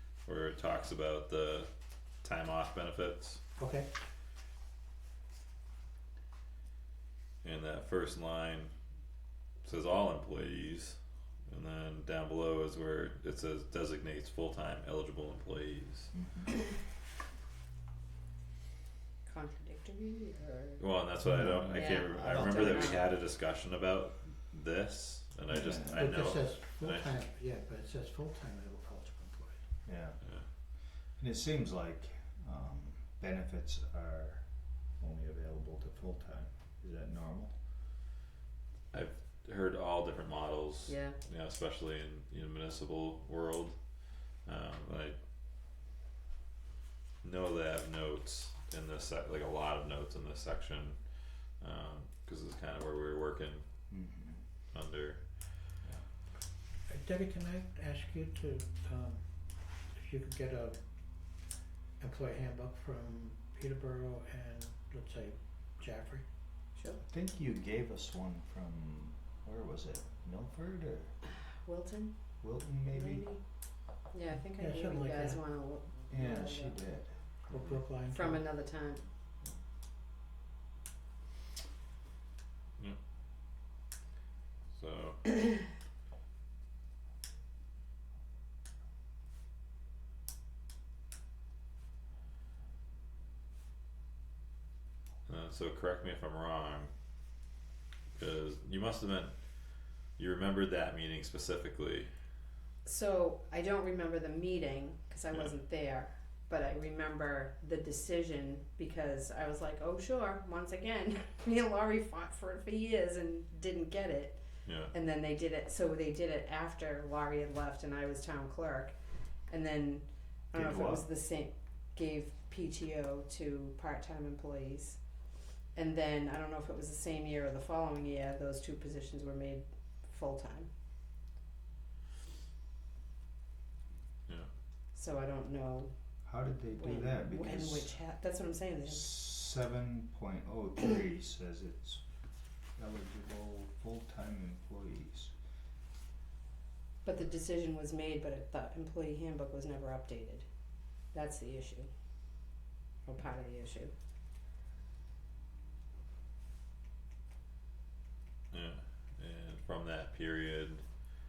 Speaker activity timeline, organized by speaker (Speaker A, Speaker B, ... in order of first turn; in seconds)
Speaker A: 0.2-1.7, 2.2-3.4, 7.4-8.7, 9.6-16.1, 20.8-27.1, 30.2-30.5, 38.9-43.8, 44.4-45.1, 47.2-51.0, 51.6-53.6, 54.7-55.3, 84.7-85.2, 95.2-96.9, 98.2-99.3, 100.2-102.1, 114.7-114.9, 158.5-160.8
Speaker B: 3.6-3.9, 25.6-29.8, 56.9-60.8, 62.0-66.2, 74.3-75.4, 77.5-78.5
Speaker C: 16.1-16.5, 21.2-23.0, 25.5-26.2, 29.8-30.2, 31.1-37.6, 53.9-54.4, 67.1-71.1, 72.4-73.3, 76.1-77.8, 120.5-121.0, 136.2-137.9, 138.9-142.0, 142.8-145.3
Speaker D: 19.2-20.8, 21.7-23.1, 40.9-41.2, 66.8-67.0, 71.6-73.4, 74.1-76.8, 78.1-79.0, 102.8-114.4, 114.9-118.9, 119.5-125.0, 125.7-130.7, 134.9-135.9, 136.7-139.2, 147.0-150.4, 151.1-151.9, 153.1-153.9